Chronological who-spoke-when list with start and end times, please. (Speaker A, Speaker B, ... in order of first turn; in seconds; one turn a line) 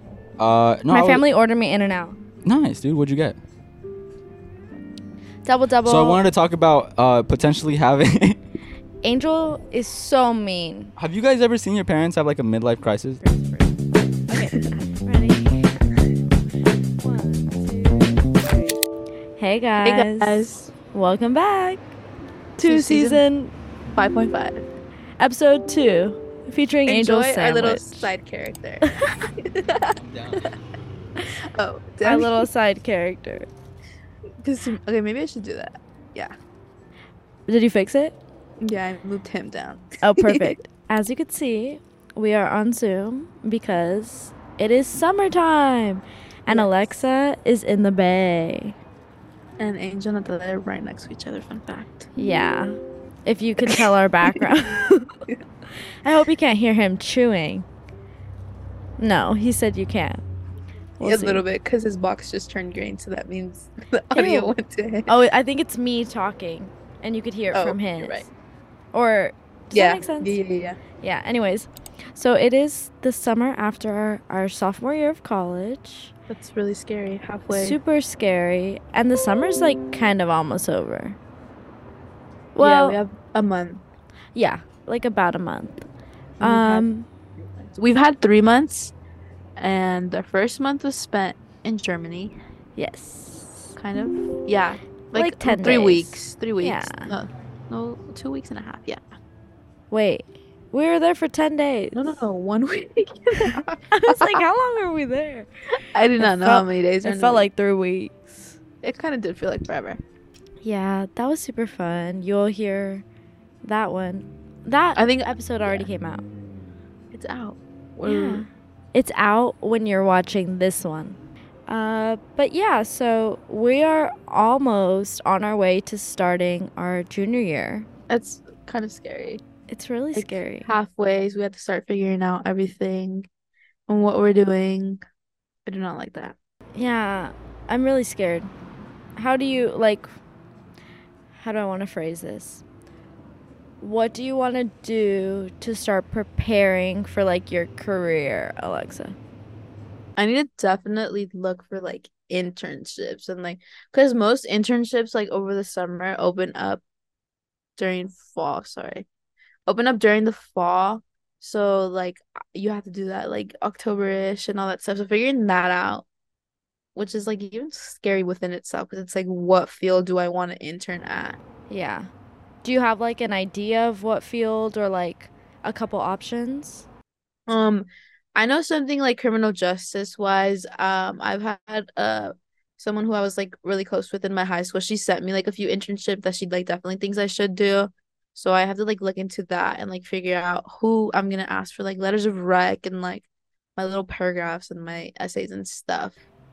Speaker A: 0.4-1.2
Speaker B: 0.9-2.2
Speaker A: 2.5-3.4
Speaker B: 5.5-6.2
Speaker A: 5.8-8.4
Speaker B: 9.0-10.9
Speaker A: 11.0-13.2
Speaker B: 13.2-13.8
Speaker B: 14.3-15.9
Speaker B: 17.0-18.2
Speaker C: 18.3-18.8
Speaker B: 19.4-21.8
Speaker C: 19.8-20.7
Speaker B: 22.6-23.5
Speaker C: 22.6-23.2
Speaker C: 23.9-24.6
Speaker B: 25.2-28.1
Speaker C: 26.9-30.5
Speaker B: 28.9-29.2
Speaker A: 29.9-30.5
Speaker C: 31.4-32.5
Speaker B: 32.0-33.5
Speaker C: 34.4-36.3
Speaker B: 37.5-38.1
Speaker C: 38.6-40.6
Speaker B: 40.0-48.8
Speaker C: 46.5-46.9
Speaker C: 49.6-52.1
Speaker B: 52.2-55.1
Speaker B: 56.0-57.7
Speaker B: 59.0-60.2
Speaker B: 61.0-61.4
Speaker C: 61.0-65.1
Speaker B: 64.1-64.5
Speaker B: 65.1-68.3
Speaker C: 67.5-68.3
Speaker B: 68.9-70.4
Speaker C: 69.7-70.8
Speaker B: 71.0-76.1
Speaker C: 76.3-77.8
Speaker B: 77.5-81.2
Speaker B: 82.5-83.0
Speaker C: 82.6-83.8
Speaker B: 84.3-85.8
Speaker C: 86.4-86.9
Speaker B: 86.4-87.1
Speaker C: 87.6-88.9
Speaker C: 89.6-92.3
Speaker B: 92.8-93.8
Speaker C: 93.8-99.0
Speaker B: 95.2-97.1
Speaker B: 99.9-102.1
Speaker C: 101.9-104.4
Speaker B: 103.4-105.5
Speaker C: 105.8-107.5
Speaker B: 106.2-108.5
Speaker C: 108.8-110.0
Speaker B: 110.6-113.0
Speaker B: 113.6-116.2
Speaker C: 115.0-115.9
Speaker C: 117.1-118.5
Speaker B: 118.0-127.9
Speaker C: 128.1-129.4
Speaker B: 129.7-130.7
Speaker C: 130.2-133.3
Speaker C: 133.9-135.0
Speaker C: 135.7-136.4
Speaker B: 136.8-138.5
Speaker B: 139.2-140.1
Speaker B: 141.4-142.6
Speaker B: 143.8-149.2
Speaker C: 150.2-156.8
Speaker C: 157.8-159.1
Speaker C: 159.7-166.1
Speaker C: 166.9-171.4
Speaker B: 171.7-172.1
Speaker B: 172.6-176.8
Speaker C: 177.5-196.2